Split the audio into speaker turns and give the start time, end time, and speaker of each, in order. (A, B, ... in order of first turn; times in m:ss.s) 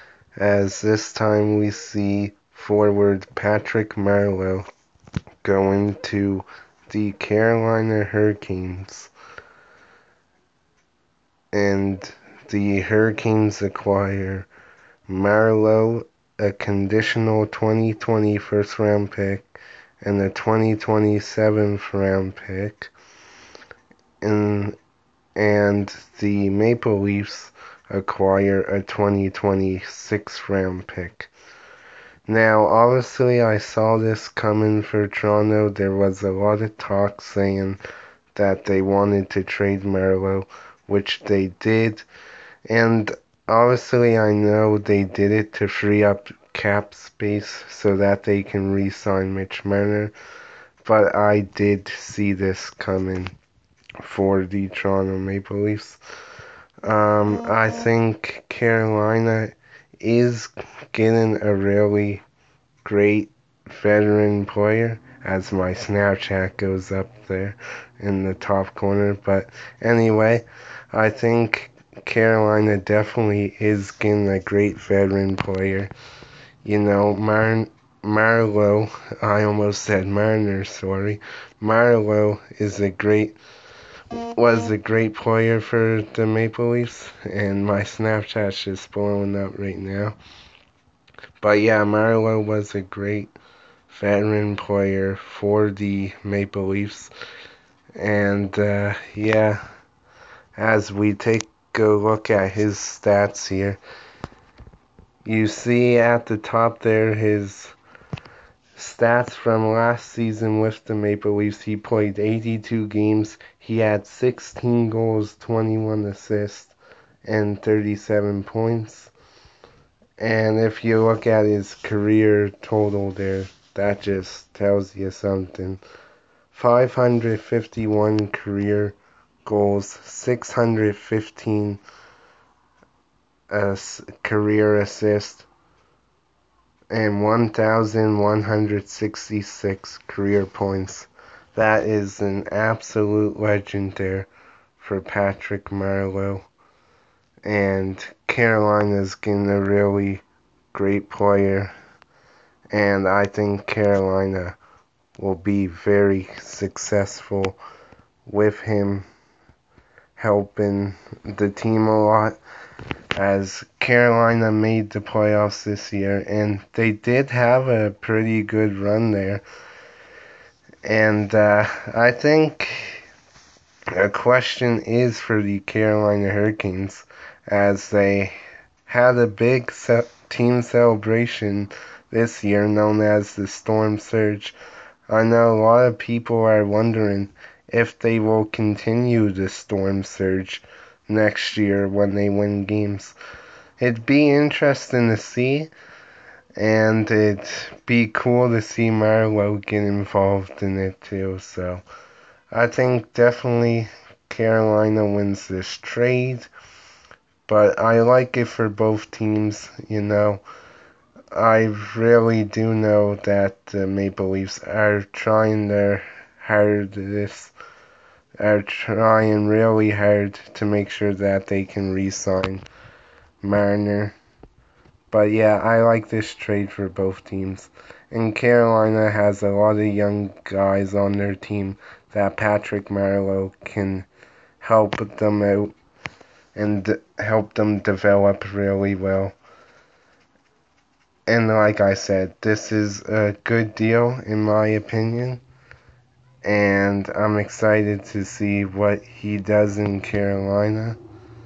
0:00.4-0:04.7 A
0:05.4-0:09.1 A
0:11.5-0:14.5 A
0:15.1-0:19.5 A
0:20.0-0:22.9 A
0:24.2-0:24.8 A
0:25.4-0:31.3 A
0:32.3-0:37.8 A
0:38.4-0:42.1 A
0:42.7-0:50.1 A
0:50.8-0:53.4 A
0:54.0-0:56.0 A
0:56.9-1:02.2 A
1:02.8-1:15.9 A
1:16.6-1:23.4 A
1:24.4-1:30.2 A
1:31.4-1:33.3 A
1:33.9-1:37.1 A
1:38.0-1:39.6 A
1:40.6-1:43.8 A
1:45.2-1:47.8 A
1:48.8-1:59.1 A
2:00.2-2:05.8 A
2:06.5-2:11.8 A
2:13.5-2:15.5 A
2:16.9-2:26.5 A
2:27.4-2:31.7 A
2:32.7-2:34.6 A
2:35.2-2:37.6 A
2:38.2-2:39.1 A
2:40.2-2:42.4 A
2:43.2-2:49.4 A
2:50.8-2:53.0 A
2:54.0-3:04.6 A
3:05.1-3:13.2 A
3:13.8-3:15.7 A
3:16.6-3:21.8 A
3:22.5-3:26.5 A
3:27.5-3:30.4 A
3:31.3-3:37.5 A
3:38.4-3:42.6 A
3:43.4-3:44.2 A
3:45.1-3:54.1 A
3:54.6-3:55.7 A
3:56.6-3:59.4 A
4:01.3-4:05.4 A
4:06.4-4:11.0 A